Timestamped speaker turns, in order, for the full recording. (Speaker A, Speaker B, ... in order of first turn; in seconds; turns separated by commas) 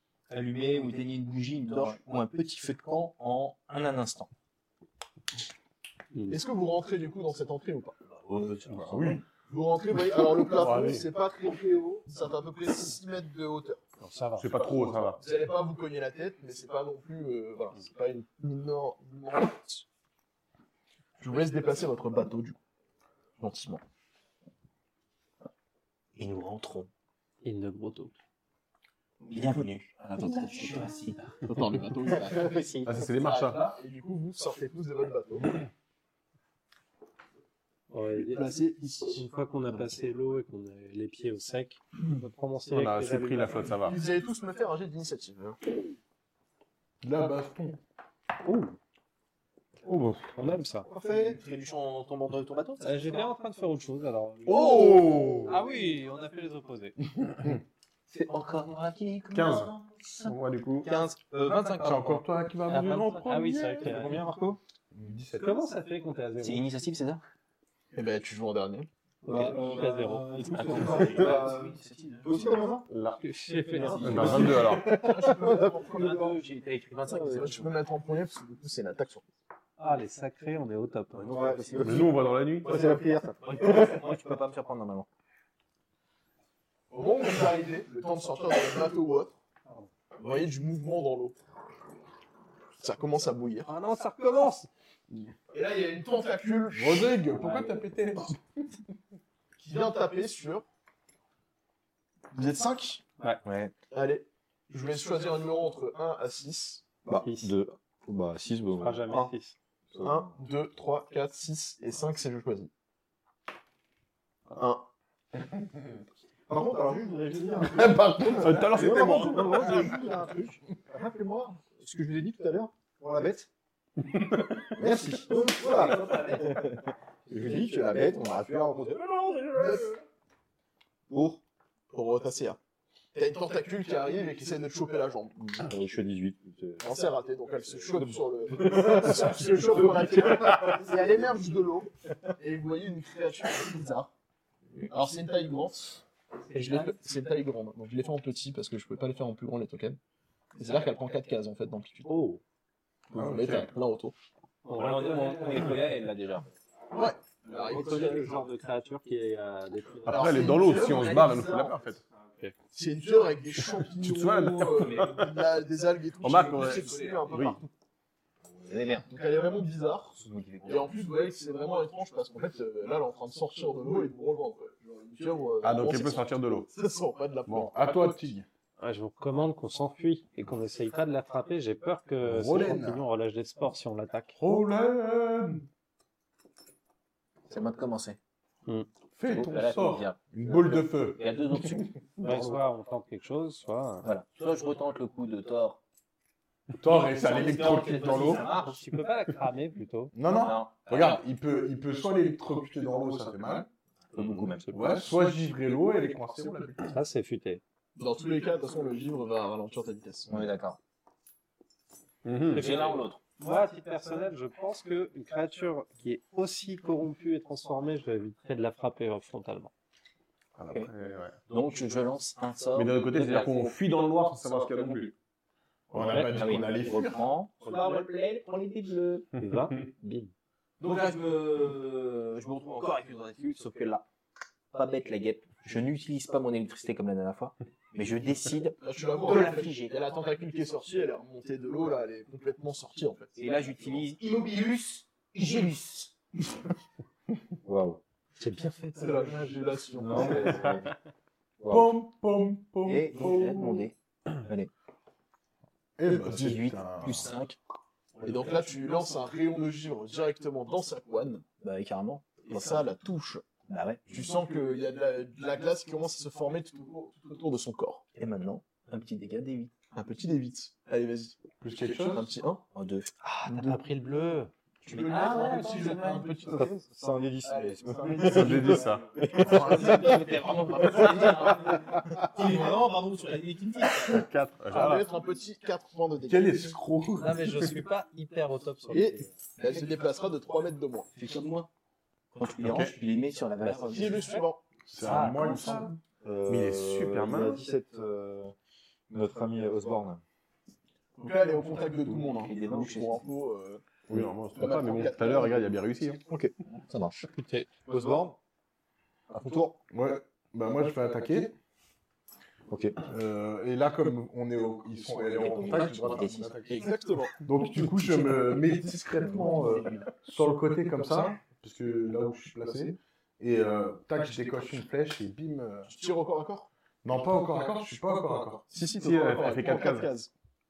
Speaker A: 0.3-4.3, Speaker B: 6.1-6.4, Speaker C: 6.3-8.0, Speaker A: 8.1-9.2, Speaker D: 8.7-9.2, Speaker C: 9.5-13.8, Speaker E: 10.5-11.1, Speaker B: 14.0-14.5, Speaker E: 14.4-15.2, Speaker C: 15.1-19.9, Speaker C: 21.2-22.6, Speaker C: 23.4-23.8, Speaker A: 26.2-26.9, Speaker B: 27.4-28.1, Speaker A: 29.2-31.4, Speaker C: 31.4-35.6, Speaker A: 32.1-32.9, Speaker E: 32.9-33.6, Speaker B: 37.9-38.6, Speaker C: 38.1-39.3, Speaker B: 39.1-43.7, Speaker E: 42.7-44.0, Speaker C: 43.8-45.6, Speaker D: 47.0-47.8, Speaker B: 48.4-48.8, Speaker B: 50.2-50.9, Speaker A: 50.9-53.3, Speaker F: 50.9-51.4, Speaker B: 52.8-57.0, Speaker E: 54.5-55.6, Speaker A: 58.1-62.2, Speaker E: 59.3-60.9, Speaker E: 61.8-62.8, Speaker D: 62.1-63.8, Speaker B: 62.7-64.3, Speaker F: 63.8-64.6, Speaker D: 64.9-65.5, Speaker B: 65.3-66.6, Speaker A: 66.4-67.2, Speaker C: 67.9-68.9, Speaker B: 69.2-71.1, Speaker F: 69.3-72.9, Speaker A: 69.3-69.6, Speaker A: 70.5-72.6, Speaker E: 72.9-73.2, Speaker B: 73.2-74.6, Speaker A: 73.7-74.8, Speaker F: 73.8-75.8, Speaker E: 74.0-74.9, Speaker C: 74.1-76.4, Speaker A: 75.7-77.7, Speaker C: 77.1-79.2, Speaker B: 79.8-81.6, Speaker F: 81.2-84.1, Speaker A: 81.4-82.0, Speaker E: 81.8-82.9, Speaker A: 82.7-85.1, Speaker C: 86.9-89.4, Speaker C: 90.2-91.4, Speaker C: 92.8-93.7, Speaker B: 93.7-94.7, Speaker C: 95.5-97.2, Speaker D: 96.7-98.4, Speaker B: 97.4-97.7, Speaker C: 99.6-100.7, Speaker C: 102.3-103.0, Speaker F: 103.5-103.7, Speaker C: 103.9-106.9, Speaker F: 107.0-109.3, Speaker B: 107.1-107.5, Speaker B: 108.8-109.6, Speaker F: 109.9-110.4, Speaker C: 110.0-112.7, Speaker C: 114.5-114.9, Speaker F: 116.5-123.5, Speaker D: 117.7-119.3, Speaker E: 118.3-119.8, Speaker F: 124.7-130.0, Speaker A: 125.4-126.6, Speaker F: 131.1-131.4, Speaker C: 131.9-132.6, Speaker C: 133.1-135.4, Speaker F: 135.4-136.8, Speaker C: 136.8-144.1, Speaker F: 137.9-140.8, Speaker C: 144.9-150.0, Speaker B: 146.5-146.9, Speaker C: 150.6-152.2, Speaker B: 152.1-152.4, Speaker C: 153.1-154.2, Speaker D: 153.2-153.7, Speaker B: 154.7-156.0, Speaker A: 154.7-156.5, Speaker C: 156.9-158.3, Speaker B: 157.5-160.6, Speaker C: 160.1-161.8, Speaker E: 160.1-162.0, Speaker B: 162.2-162.5, Speaker C: 162.7-167.7, Speaker E: 164.0-165.3, Speaker E: 166.2-167.6, Speaker A: 168.6-169.1, Speaker C: 169.0-178.3, Speaker A: 170.2-170.9, Speaker E: 175.6-176.7, Speaker D: 177.5-178.5, Speaker B: 178.8-184.3, Speaker D: 182.2-183.1, Speaker D: 184.3-185.6, Speaker A: 187.5-188.2, Speaker D: 189.2-191.2, Speaker A: 189.2-192.3, Speaker B: 192.2-194.1, Speaker A: 194.0-195.8, Speaker D: 196.8-198.4, Speaker A: 197.0-198.8, Speaker B: 198.3-200.1, Speaker D: 200.1-203.7, Speaker A: 200.3-201.2, Speaker A: 204.1-205.1, Speaker D: 204.7-206.8, Speaker B: 206.9-207.6, Speaker C: 208.0-210.5, Speaker A: 210.3-210.8, Speaker E: 212.2-212.7, Speaker A: 212.5-213.2, Speaker B: 212.5-219.7, Speaker E: 220.6-221.4, Speaker A: 221.5-223.7, Speaker E: 222.8-225.1, Speaker D: 225.9-227.2, Speaker A: 226.0-229.3, Speaker B: 229.4-229.9, Speaker A: 230.0-230.3, Speaker A: 230.8-234.1, Speaker A: 234.7-240.0, Speaker C: 238.8-244.0, Speaker A: 243.4-246.1, Speaker F: 247.7-248.0, Speaker A: 248.4-249.1, Speaker B: 248.5-249.0, Speaker C: 249.0-250.7, Speaker F: 250.0-250.9, Speaker F: 251.6-251.9, Speaker D: 251.7-253.9, Speaker A: 252.8-254.7, Speaker D: 256.0-257.3, Speaker A: 256.1-257.6, Speaker C: 258.2-261.4, Speaker A: 261.6-262.5, Speaker C: 262.4-263.5, Speaker A: 263.7-264.3, Speaker C: 264.1-268.0, Speaker A: 268.1-269.7, Speaker C: 269.9-272.6, Speaker D: 271.6-272.3, Speaker A: 272.7-273.8, Speaker B: 273.2-274.5, Speaker C: 274.8-276.8, Speaker A: 274.9-276.4, Speaker B: 275.3-275.9, Speaker F: 276.5-280.2, Speaker C: 277.4-281.9, Speaker E: 278.2-279.1, Speaker A: 279.4-284.3, Speaker E: 284.1-285.1, Speaker C: 284.7-286.8, Speaker D: 286.2-287.7, Speaker B: 287.2-289.3, Speaker C: 288.9-291.1, Speaker A: 291.1-291.7, Speaker A: 292.3-294.4, Speaker E: 292.6-292.9, Speaker C: 293.7-294.6, Speaker B: 294.1-294.4, Speaker D: 294.9-296.0, Speaker B: 295.0-295.9, Speaker F: 296.2-298.5, Speaker E: 296.5-297.6, Speaker F: 299.1-300.2, Speaker C: 301.2-303.8, Speaker A: 302.3-303.3, Speaker E: 304.1-306.2, Speaker C: 304.5-305.7, Speaker F: 306.3-307.1, Speaker B: 307.4-307.7, Speaker F: 307.9-308.4, Speaker F: 309.3-309.8, Speaker D: 309.9-311.6, Speaker F: 312.7-313.0, Speaker D: 313.0-325.9, Speaker A: 315.2-316.6, Speaker E: 315.9-316.4, Speaker C: 316.7-317.4, Speaker A: 319.3-320.1, Speaker C: 322.6-322.9, Speaker C: 325.9-327.9, Speaker D: 327.0-328.7, Speaker C: 328.7-330.3, Speaker E: 328.9-330.1